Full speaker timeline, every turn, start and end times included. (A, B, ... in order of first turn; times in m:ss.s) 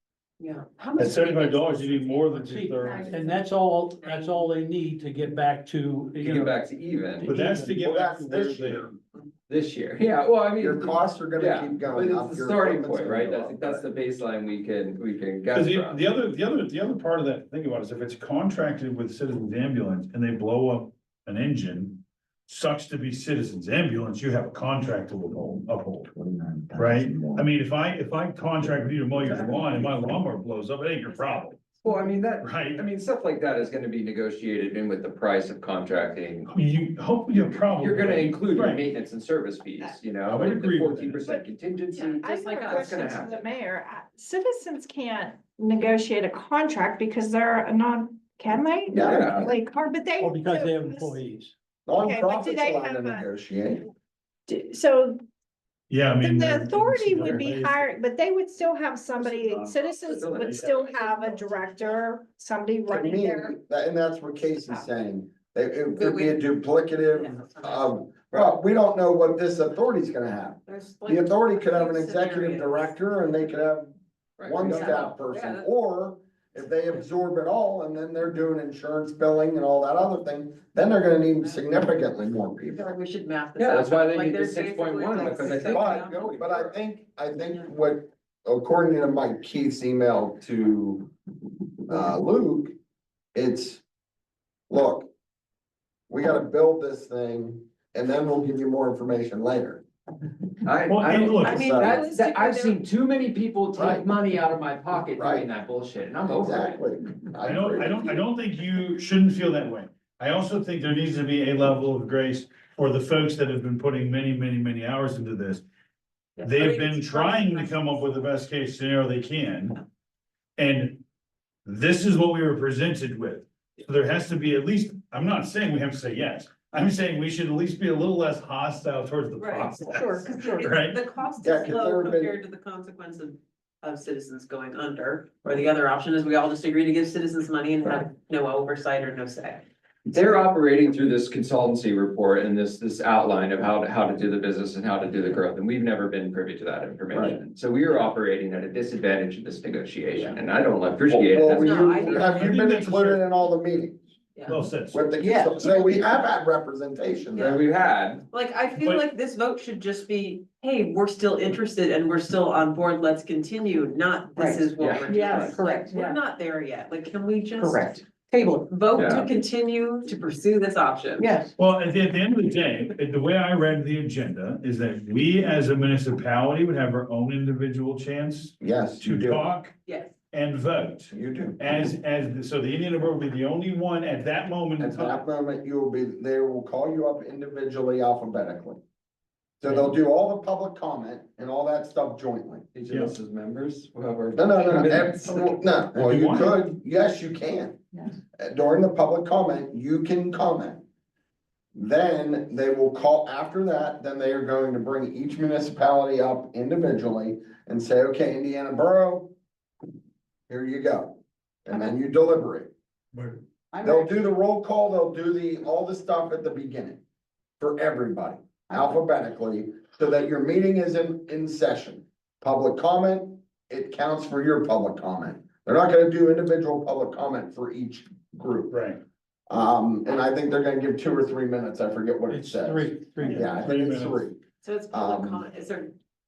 0:00.4-0:02.3 A
0:01.0-0:03.3 B
0:02.3-0:06.6 C
0:04.0-0:04.4 A
0:06.2-0:07.3 D
0:07.2-0:07.8 C
0:07.2-0:08.9 B
0:07.8-0:09.0 E
0:09.5-0:16.0 D
0:10.6-0:13.8 E
0:15.5-0:26.1 B
0:26.1-0:27.4 E
0:26.7-0:31.6 B
0:31.1-0:31.8 A
0:31.8-0:36.5 D
0:32.4-0:32.8 B
0:36.5-0:38.9 B
0:37.7-0:43.5 D
0:40.2-0:41.2 B
0:41.9-0:42.9 A
0:42.0-0:51.2 F
0:48.9-0:49.5 E
0:49.0-0:49.5 D
0:50.2-0:51.6 C
0:51.9-0:53.9 E
0:52.0-0:53.3 F
0:54.5-0:55.2 F
0:55.9-0:57.9 B
0:56.2-1:03.6 F
0:59.2-0:59.8 B
0:59.9-1:00.8 D
1:00.4-1:01.4 B
1:02.9-1:13.9 E
1:06.0-1:06.4 A
1:07.1-1:07.9 A
1:10.7-1:12.9 A
1:14.4-1:15.1 D
1:14.4-1:22.9 E
1:14.6-1:15.7 A
1:22.7-1:26.3 A
1:23.6-1:26.7 D
1:25.5-1:31.1 E
1:31.9-1:32.8 E
1:33.3-1:33.8 E
1:34.7-1:35.1 E
1:36.1-1:39.8 E
1:40.6-1:46.8 D
1:40.9-1:41.6 B
1:41.4-1:42.8 A
1:41.5-1:42.0 E
1:43.7-1:44.1 E
1:45.2-1:45.5 E
1:46.3-1:48.2 E
1:47.4-1:55.6 B
1:56.4-1:58.2 A
1:56.4-1:59.8 B
2:00.6-2:01.0 B
2:01.6-2:11.0 B
2:09.4-2:19.6 A
2:10.0-2:10.6 G
2:11.4-2:12.4 E
2:20.1-2:32.3 D
2:27.1-2:27.4 E
2:31.1-2:34.0 E
2:31.6-2:32.4 A
2:32.2-2:33.2 B
2:34.5-2:35.2 B
2:34.9-2:37.6 E
2:35.2-2:35.9 G
2:37.4-2:38.2 D
2:38.3-2:48.1 A
2:38.8-2:39.0 B
2:44.4-2:46.2 G
2:44.8-2:45.6 D
2:47.6-2:48.7 G
2:48.7-2:51.3 A
2:48.9-2:49.3 D
2:51.2-2:51.5 G
2:51.6-2:59.7 B
2:58.6-2:59.4 E
2:59.9-3:00.1 A
3:00.3-3:05.2 B
3:01.1-3:01.6 E
3:04.8-3:08.8 E
3:09.6-3:12.7 E
3:12.7-3:15.6 D
3:14.4-3:17.8 E
3:16.0-3:16.6 B
3:18.4-3:20.8 E
3:21.8-3:29.3 E
3:30.5-3:32.7 E
3:33.7-3:34.2 G
3:33.8-3:37.0 E
3:37.6-3:48.8 E
3:48.7-3:49.0 B
3:49.5-3:54.4 E
3:52.3-3:53.7 C
3:53.2-3:54.2 B
3:54.6-3:55.9 A
3:54.9-3:55.4 E